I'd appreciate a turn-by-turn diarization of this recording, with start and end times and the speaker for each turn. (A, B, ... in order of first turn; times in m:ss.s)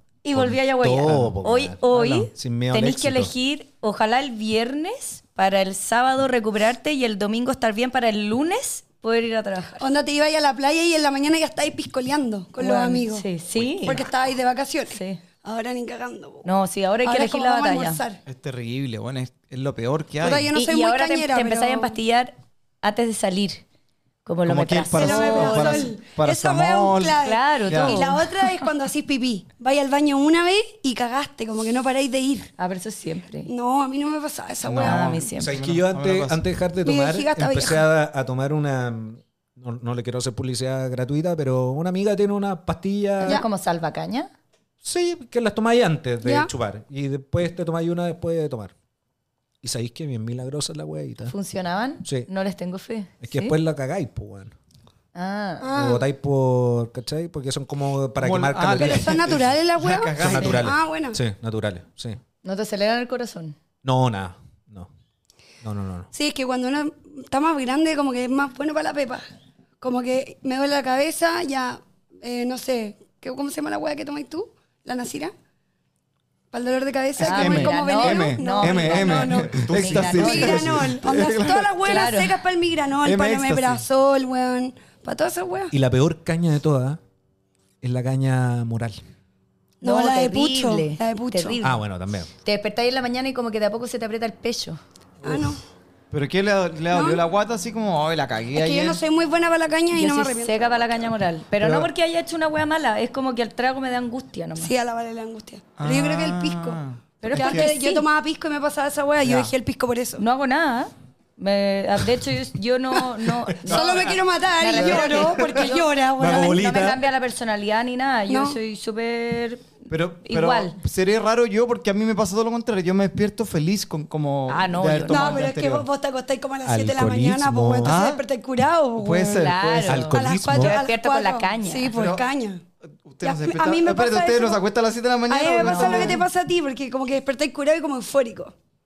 0:00.2-0:09.9 A
0:00.3-0:01.8 B
0:01.9-0:02.3 C
0:02.3-0:03.3 B
0:09.8-0:13.2 D
0:12.6-0:14.1 A
0:13.8-0:16.5 D
0:14.9-0:15.2 A
0:16.4-0:18.0 A
0:17.0-0:18.2 D
0:18.2-0:20.5 C
0:20.2-0:22.0 D
0:20.5-0:23.6 A
0:24.2-0:25.9 A
0:24.4-0:27.2 C
0:25.0-0:32.5 D
0:27.2-0:28.7 A
0:27.7-0:28.0 C
0:32.6-0:33.5 A
0:33.5-0:35.2 D
0:34.6-0:36.4 C
0:34.8-0:35.5 A
0:35.4-0:43.4 B
0:36.8-0:37.9 D
0:43.2-0:44.3 A
0:44.8-0:48.7 B
0:46.2-0:46.5 D
0:49.6-0:51.3 B
0:51.3-0:53.5 A
0:53.2-0:54.5 B
0:55.1-0:55.7 A
0:55.6-0:56.0 D
0:55.7-0:59.2 B
0:58.2-1:00.7 C
0:58.7-1:01.2 D
1:00.1-1:02.2 B
1:02.4-1:03.6 A
1:03.8-1:04.9 B
1:05.6-1:06.1 B
1:06.1-1:09.2 D
1:09.8-1:15.3 D
1:16.5-1:25.7 D
1:17.2-1:20.9 A
1:17.2-1:22.1 C
1:21.8-1:22.4 A
1:23.0-1:23.8 C
1:25.7-1:27.0 B
1:27.8-1:29.0 B
1:29.8-1:31.6 D
1:29.8-1:31.8 A
1:31.6-1:32.3 B
1:32.4-1:34.8 A
1:35.2-1:35.6 D
1:36.1-1:39.0 C
1:36.9-1:37.2 D
1:38.5-1:41.1 D
1:39.9-1:44.7 A
1:44.6-1:46.8 D
1:45.8-1:47.7 C
1:47.2-1:48.1 A
1:47.3-1:50.2 D
1:49.2-1:49.5 C
1:50.2-2:00.8 A
1:53.7-1:54.2 C
1:53.7-1:56.6 D
1:54.8-1:55.6 C
1:56.2-1:57.0 B
1:58.3-1:58.6 D
1:59.9-2:05.9 C
2:04.5-2:05.5 A
2:05.1-2:09.4 D
2:06.6-2:08.0 B
2:07.8-2:08.2 C
2:09.0-2:10.0 C
2:09.3-2:11.9 A
2:09.8-2:10.8 B
2:10.1-2:12.6 D
2:11.9-2:12.2 C
2:13.0-2:16.2 C
2:13.2-2:14.6 D
2:15.3-2:18.5 D
2:15.6-2:16.2 A